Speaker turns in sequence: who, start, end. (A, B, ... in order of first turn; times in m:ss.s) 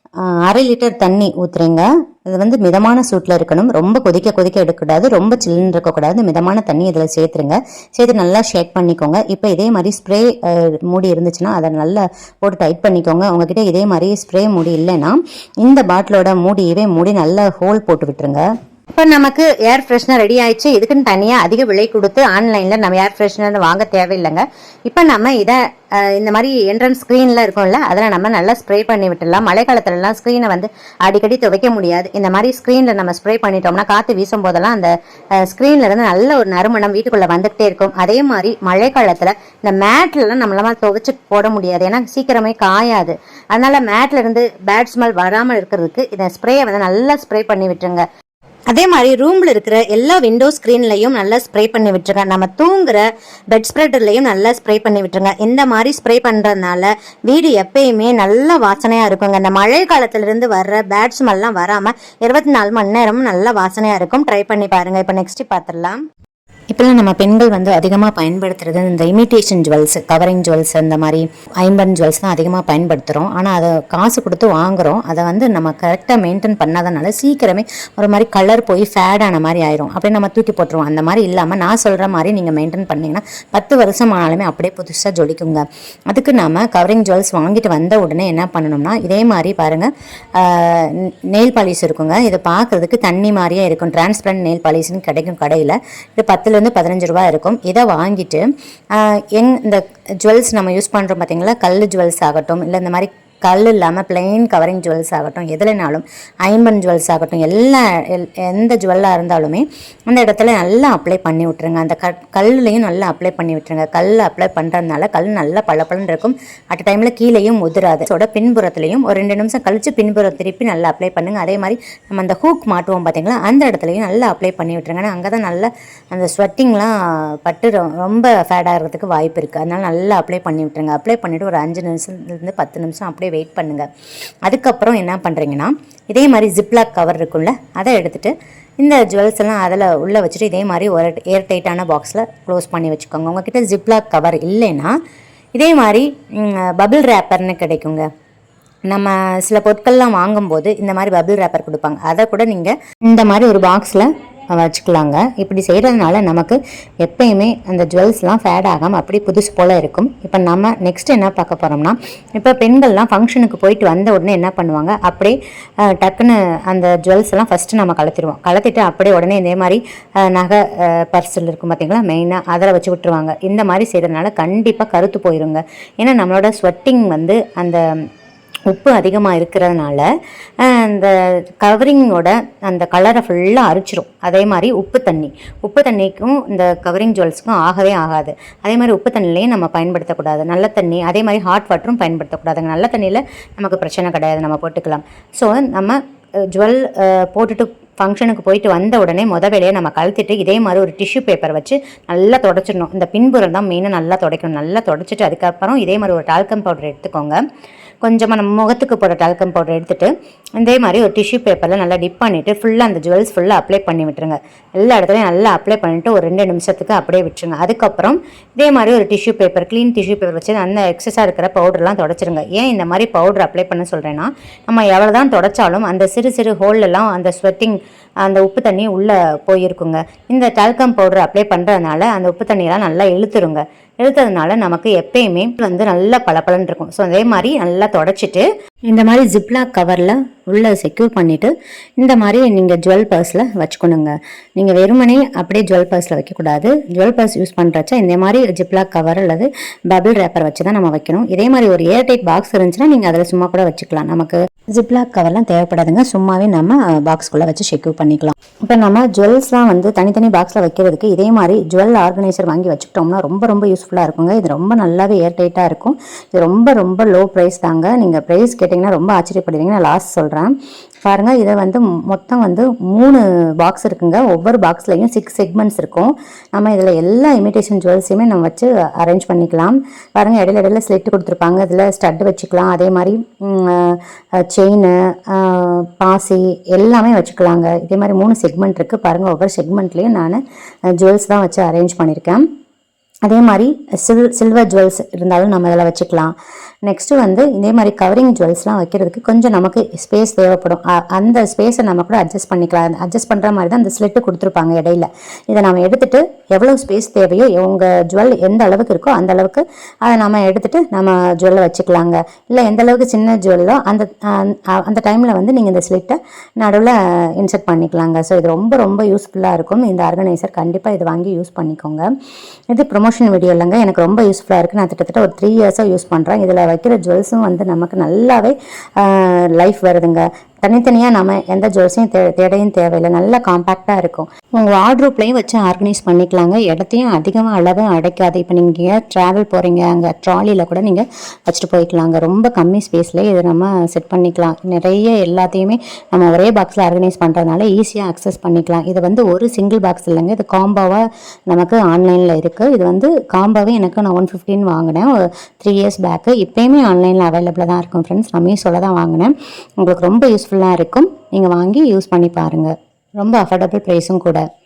0:00.2-0:48.0 A
0:48.7-1:06.0 A
1:06.7-1:38.4 A
1:39.0-2:13.9 A
2:14.5-2:24.9 A
2:25.6-2:28.1 A
2:28.9-2:57.8 A
2:58.7-3:00.1 A
3:00.6-3:16.0 A
3:16.5-3:27.4 A
3:28.0-4:30.5 A
4:31.0-4:50.4 A
4:51.0-4:52.4 A
4:53.3-4:56.3 A
4:56.9-5:22.1 A
5:22.7-6:04.4 A